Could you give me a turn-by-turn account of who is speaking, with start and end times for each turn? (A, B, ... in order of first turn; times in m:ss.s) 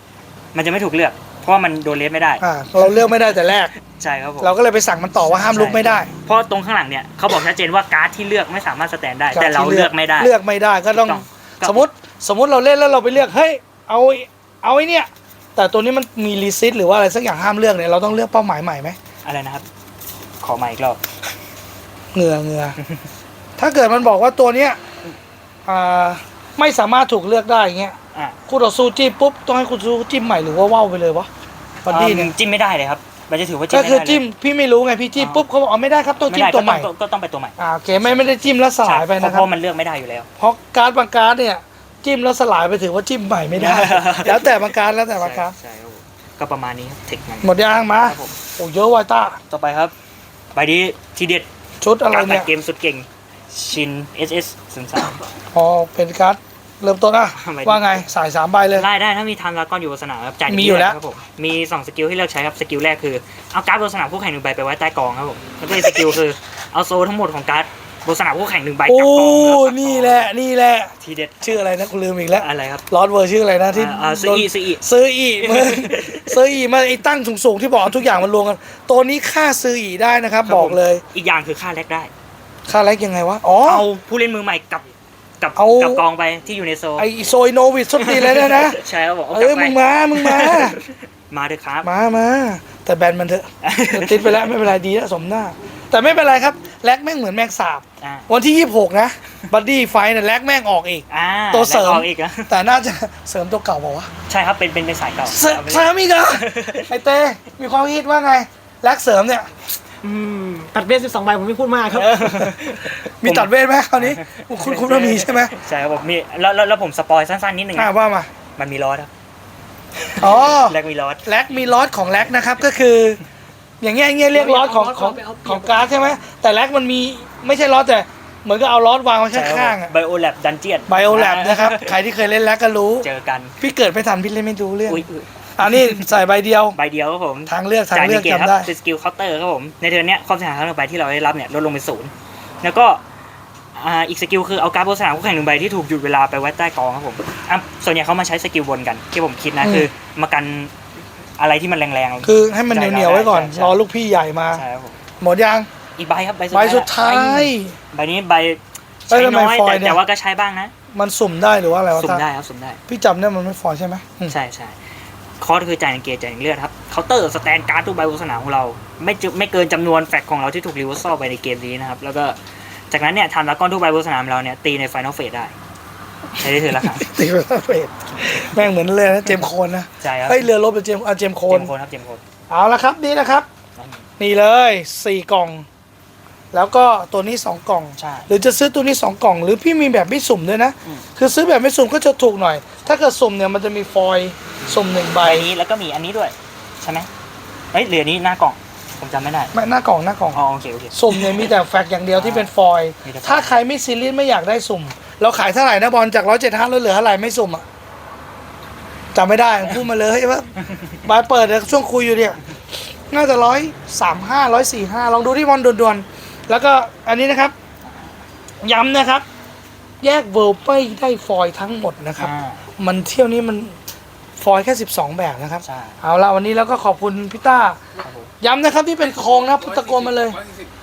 0:00.5-0:03.0 A
0:02.4-0:03.7 B
0:03.8-0:04.5 A
0:04.4-0:06.1 B
0:05.5-0:10.3 A
0:09.3-0:19.0 B
0:10.9-0:11.9 A
0:19.2-0:19.6 A
0:20.4-0:21.0 A
0:22.1-0:22.8 B
0:23.6-0:24.8 B
0:25.6-0:28.0 B
0:28.5-0:31.3 B
0:31.8-0:32.3 B
0:31.9-0:34.2 A
0:33.7-0:36.9 B
0:35.2-0:35.4 A
0:36.3-0:40.3 A
0:37.6-0:39.5 B
0:40.4-0:45.5 B
0:43.5-0:48.4 A
0:47.4-0:49.4 B
0:49.5-0:49.9 A
0:50.5-0:51.5 A
0:51.8-0:52.5 B
0:52.1-0:55.2 A
0:55.5-0:58.8 B
0:57.3-0:58.0 A
0:58.7-1:10.3 A
1:00.5-1:01.0 B
1:05.8-1:06.1 B
1:08.8-1:21.0 B
1:11.0-1:11.6 A
1:12.4-1:12.8 A
1:13.7-1:14.8 A
1:15.4-1:16.4 A
1:20.4-1:22.1 A
1:22.7-1:23.9 B
1:23.6-1:27.1 A
1:25.6-1:26.0 B
1:27.0-1:28.8 B
1:28.0-1:31.9 A
1:29.3-1:30.8 B
1:31.8-1:44.1 B
1:33.6-1:34.6 A
1:38.0-1:38.3 A
1:41.1-1:42.5 A
1:44.3-1:46.9 A
1:45.2-1:49.5 B
1:50.0-1:52.5 C
1:51.9-1:57.9 A
1:53.0-1:55.5 B
1:57.7-1:58.3 B
1:58.6-1:59.1 A
2:00.0-2:01.3 A
2:00.1-2:03.2 B
2:03.8-2:09.9 B
2:04.3-2:05.9 C
2:09.3-2:12.0 A
2:10.9-2:13.1 B
2:13.0-2:13.6 A
2:13.6-2:15.0 B
2:14.9-2:16.1 A
2:15.6-2:16.8 B
2:16.7-2:23.0 A
2:17.5-2:18.7 B
2:23.7-2:30.7 A
2:29.6-2:29.9 B
2:31.4-2:33.8 A
2:32.2-2:34.6 B
2:34.5-2:35.0 A
2:35.2-2:35.7 B
2:36.0-2:40.7 A
2:36.5-2:37.8 B
2:39.1-2:40.0 B
2:40.9-2:42.2 B
2:41.9-2:42.8 A
2:42.9-2:44.3 B
2:44.3-2:44.8 A
2:45.4-2:55.5 A
2:56.4-2:57.1 A
2:56.7-3:01.7 B
3:00.0-3:00.5 A
3:01.5-3:02.2 A
3:02.5-3:03.5 B
3:03.8-3:04.1 A
3:04.2-3:05.6 B
3:06.5-3:15.5 B
3:08.0-3:08.3 A
3:14.6-3:17.1 A
3:17.7-3:19.5 A
3:19.5-3:20.4 B
3:20.3-3:21.5 A
3:20.9-3:27.6 B
3:22.1-3:22.5 A
3:23.0-3:23.6 A
3:29.1-3:37.5 B
3:30.6-3:31.0 A
3:37.8-3:38.2 A
3:38.6-3:39.2 B
3:40.0-3:43.8 B
3:42.2-3:42.6 A
3:44.4-3:47.8 B
3:45.6-3:46.0 A
3:48.0-3:48.3 A
3:48.4-3:50.4 B